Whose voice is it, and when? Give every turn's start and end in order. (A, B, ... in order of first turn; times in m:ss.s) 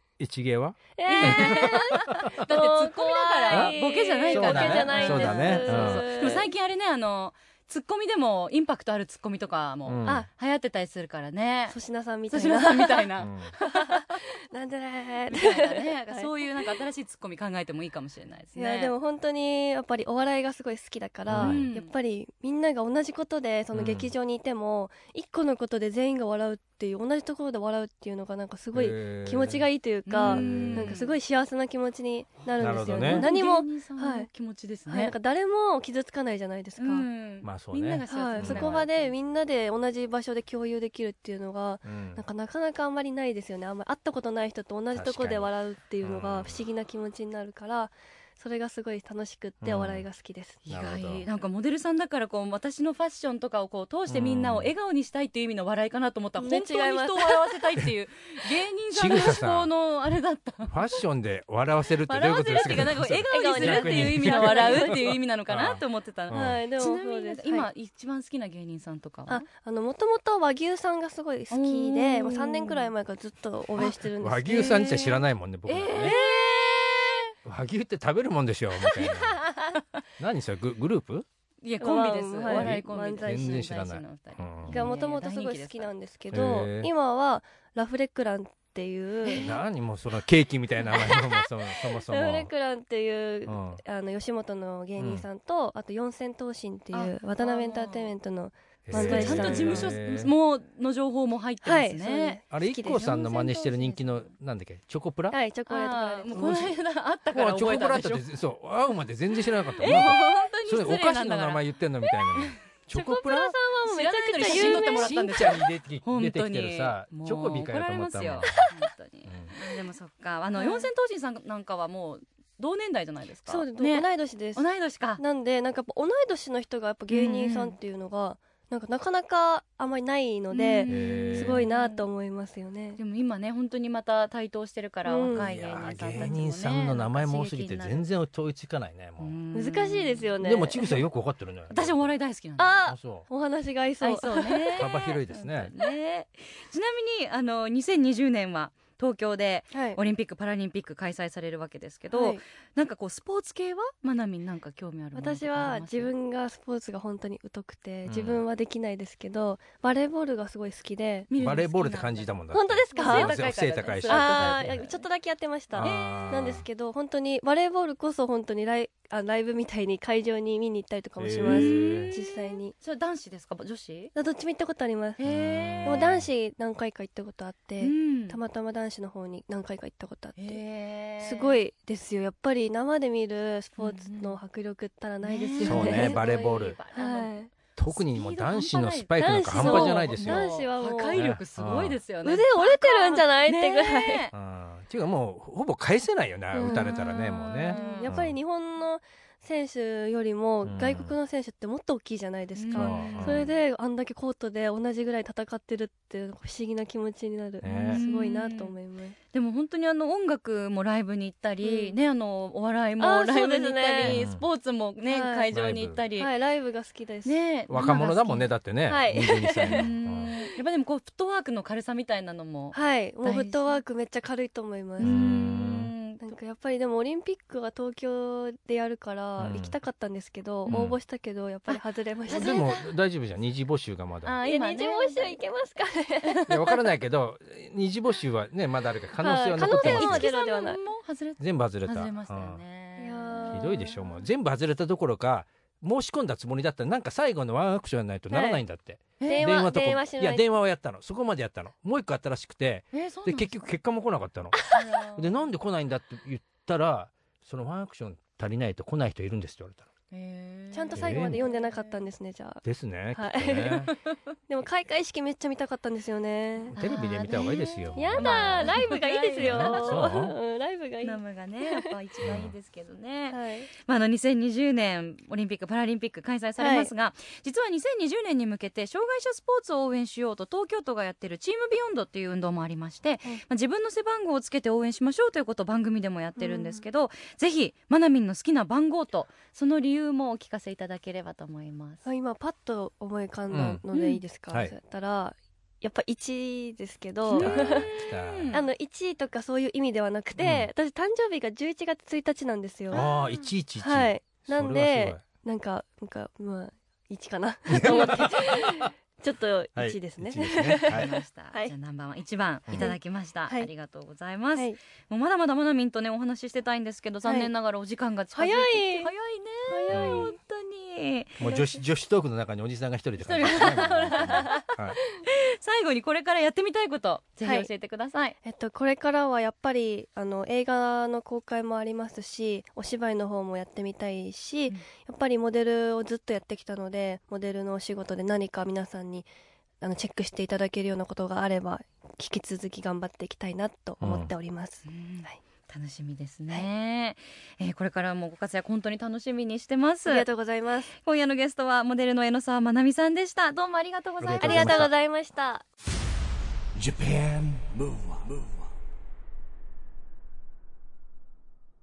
0:00.2-0:02.4 A
0:01.0-0:06.4 B
0:01.0-0:11.8 C
0:04.3-0:06.4 A
0:09.8-0:10.2 A
0:11.7-0:13.1 B
0:12.3-0:14.2 C
0:13.2-0:13.5 A
0:13.6-0:16.7 B
0:15.3-0:18.9 C
0:18.6-0:34.3 B
0:21.3-0:21.6 A
0:21.4-0:21.9 C
0:23.7-0:24.1 A
0:28.7-0:29.6 A
0:30.0-0:31.1 C
0:30.2-0:31.0 A
0:32.6-0:33.3 A
0:32.9-0:35.1 C
0:34.9-0:37.0 B
0:36.8-0:39.1 C
0:37.4-0:38.8 A
0:38.1-0:50.6 B
0:41.8-0:42.2 A
0:44.9-0:45.5 A
0:46.0-0:46.6 A
0:49.6-0:50.0 A
0:50.6-1:00.8 C
0:50.7-0:51.2 A
0:54.1-0:54.7 A
0:56.4-0:57.5 B
0:58.9-0:59.7 A
1:00.6-1:06.6 A
1:02.0-1:09.4 C
1:03.3-1:05.2 B
1:06.3-1:07.7 B
1:09.3-1:15.1 B
1:11.5-1:12.9 C
1:13.8-1:15.2 C
1:13.8-1:16.1 A
1:15.7-1:17.3 C
1:15.9-1:17.2 B
1:17.4-1:19.4 A
1:20.2-1:21.2 A
1:21.6-1:25.9 C
1:21.8-1:23.7 B
1:22.5-1:24.9 A
1:24.7-1:29.6 B
1:26.3-1:26.9 A
1:29.2-1:29.6 C
1:29.4-1:32.5 A
1:30.9-1:31.5 B
1:32.0-1:39.9 B
1:33.4-1:33.8 A
1:35.0-1:35.2 A
1:36.9-1:38.1 C
1:38.9-1:40.3 A
1:38.9-1:42.4 C
1:41.6-1:43.1 B
1:42.5-1:45.4 A
1:42.9-1:44.3 C
1:45.3-1:46.7 B
1:45.7-1:48.2 C
1:46.3-1:46.7 A
1:47.3-1:53.5 A
1:49.8-1:51.6 C
1:49.8-1:50.3 B
1:52.9-1:55.6 B
1:53.8-2:05.2 C
1:54.4-1:58.6 A
1:58.4-1:58.8 B
1:59.3-1:59.5 A
2:00.6-2:00.9 B
2:03.5-2:04.6 B
2:05.2-2:13.0 B
2:07.1-2:07.8 C
2:10.5-2:12.0 C
2:10.9-2:11.7 A
2:13.0-2:18.0 C
2:15.0-2:15.5 B
2:15.3-2:19.3 A
2:19.2-2:20.3 C
2:19.5-2:21.0 B
2:20.4-2:22.1 A
2:21.7-2:22.8 C
2:22.6-2:24.8 B
2:22.9-2:23.2 A
2:24.0-2:36.1 C
2:24.8-2:25.7 A
2:29.7-2:30.0 B
2:32.1-2:32.4 B
2:35.1-2:41.3 B
2:38.0-2:38.4 A
2:41.3-2:42.3 C
2:41.4-2:44.8 A
2:42.5-2:43.4 B
2:42.9-2:45.0 C
2:44.0-2:52.7 B
2:45.7-2:46.7 A
2:45.8-2:46.3 C
2:51.2-2:52.1 A
2:51.4-2:54.1 C
2:54.1-2:55.2 B
2:55.2-2:56.1 C
2:55.2-2:56.3 A
2:55.8-3:00.6 B
2:57.8-2:58.4 C
3:00.4-3:01.6 C
3:01.2-3:06.2 B
3:03.8-3:04.4 C
3:05.2-3:07.3 C
3:05.6-3:06.8 A
3:06.9-3:07.5 B
3:07.8-3:10.4 A
3:07.9-3:14.3 C
3:09.2-3:11.2 B
3:11.1-3:12.0 A
3:12.2-3:14.2 B
3:14.3-3:18.4 A
3:16.5-3:17.1 B
3:16.6-3:18.1 C
3:17.6-3:29.2 B
3:20.6-3:21.1 A
3:22.6-3:23.5 C
3:22.7-3:23.5 A
3:27.6-3:28.0 A
3:27.7-3:28.7 C
3:29.3-3:36.3 C
3:31.6-3:32.0 B
3:33.0-3:34.2 B
3:34.0-3:34.4 A
3:35.1-3:35.6 B
3:35.5-3:36.0 A
3:36.1-3:38.0 B
3:37.2-3:38.5 C
3:37.7-3:40.3 A
3:38.8-3:39.9 B
3:39.6-3:43.8 C
3:42.7-3:45.2 B
3:45.0-3:46.3 C
3:45.0-3:45.9 A
3:46.2-3:52.8 B
3:49.4-3:49.7 A
3:50.7-3:51.0 A
3:51.7-3:52.7 C
3:52.3-3:54.3 A
3:54.2-3:55.4 C
3:54.4-3:56.8 B
3:56.5-4:00.3 A
3:59.2-4:00.8 B
3:59.7-4:03.9 C
4:01.4-4:02.6 A
4:03.0-4:04.0 B
4:03.5-4:19.9 A
4:08.3-4:08.6 B
4:09.2-4:09.5 C
4:09.3-4:10.4 B
4:12.9-4:13.5 C
4:14.7-4:15.3 C
4:20.1-4:22.0 C
4:20.7-4:22.6 B
4:20.9-4:21.4 A
4:22.6-4:23.9 A
4:23.1-4:23.9 B
4:23.9-4:24.2 C
4:24.5-4:26.7 B
4:26.7-4:30.3 A
4:26.7-4:30.1 C
4:27.3-4:31.9 B
4:31.0-4:52.0 C
4:32.2-4:32.5 A
4:33.3-4:33.7 B
4:36.6-4:36.9 B
4:46.4-4:46.8 B
4:52.0-4:57.9 B
4:53.5-4:53.8 A
4:53.9-4:54.2 C
4:57.3-4:58.6 C
4:57.3-4:58.6 A
4:58.5-5:03.0 B
5:00.4-5:00.7 A
5:02.9-5:05.2 A
5:02.9-5:03.4 C
5:03.8-5:11.7 B
5:07.7-5:08.9 A
5:07.8-5:08.2 C
5:09.8-5:11.1 A
5:10.8-5:21.4 C
5:17.2-5:17.5 B
5:18.3-5:19.1 B
5:19.6-5:20.4 B
5:19.9-5:20.3 A
5:21.4-5:25.0 A
5:21.4-5:21.7 B
5:23.2-5:24.6 C
5:23.5-5:24.6 B
5:25.3-5:28.3 C
5:27.4-5:27.7 B
5:28.4-5:39.3 B
5:39.8-5:45.4 B
5:44.0-5:44.3 A
5:44.9-5:50.3 C
5:50.0-5:50.9 B
5:51.0-5:54.9 C
5:54.2-5:54.9 A
5:54.4-5:55.6 B
5:56.8-5:58.7 D